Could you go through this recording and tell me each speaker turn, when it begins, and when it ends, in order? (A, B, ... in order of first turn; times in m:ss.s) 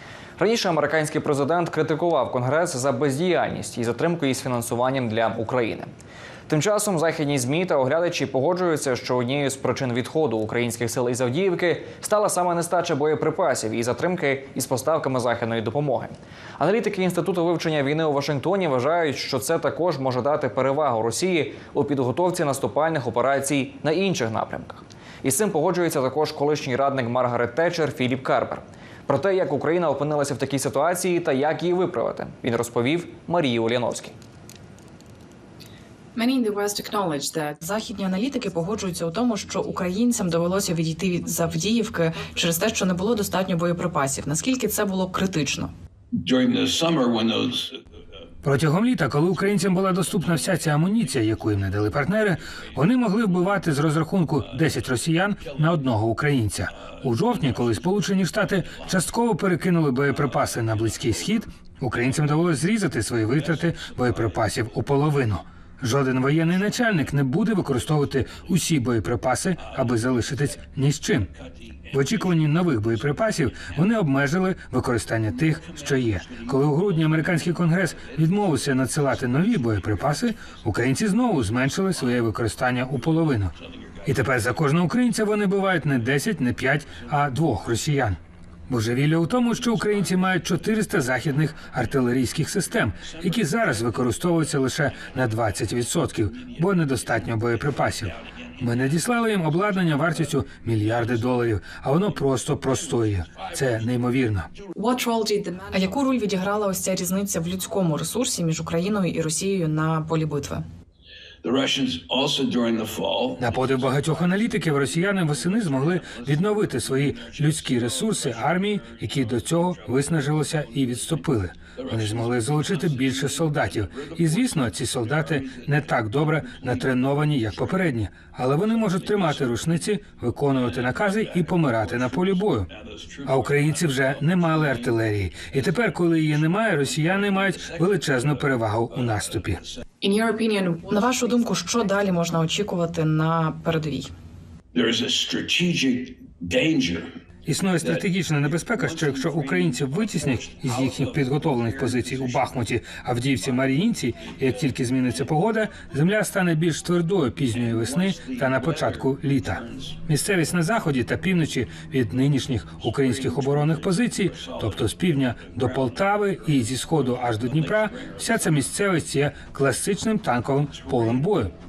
0:00.4-0:05.9 A
0:06.5-0:34.1 A
0:36.2-0:37.6 B
0:37.6-0:45.7 C
0:46.1-0:47.8 D
0:48.4-1:11.3 E
0:57.3-0:58.0 D
1:00.3-1:01.2 D
1:11.9-1:12.4 D
1:11.9-1:44.5 E
1:13.1-1:13.7 D
1:15.5-1:18.8 D
1:19.7-1:20.2 D
1:23.6-1:24.4 D
1:32.9-1:34.1 D
1:35.0-1:35.8 D
1:36.3-1:40.3 D
1:40.9-1:41.3 D
1:43.0-1:44.0 D
1:44.8-1:45.8 B
1:45.6-1:50.6 C
1:51.4-2:07.9 D
1:53.4-2:12.7 E
2:08.6-2:09.8 D
2:10.6-2:19.8 D
2:13.2-2:19.6 E
2:20.0-2:21.1 B
2:20.9-2:24.1 C
2:24.7-2:27.1 D
2:27.5-2:51.5 E
2:27.8-2:32.5 D
2:33.4-2:34.5 D
2:37.5-2:40.0 D
2:42.8-2:48.7 D
2:50.7-2:51.4 D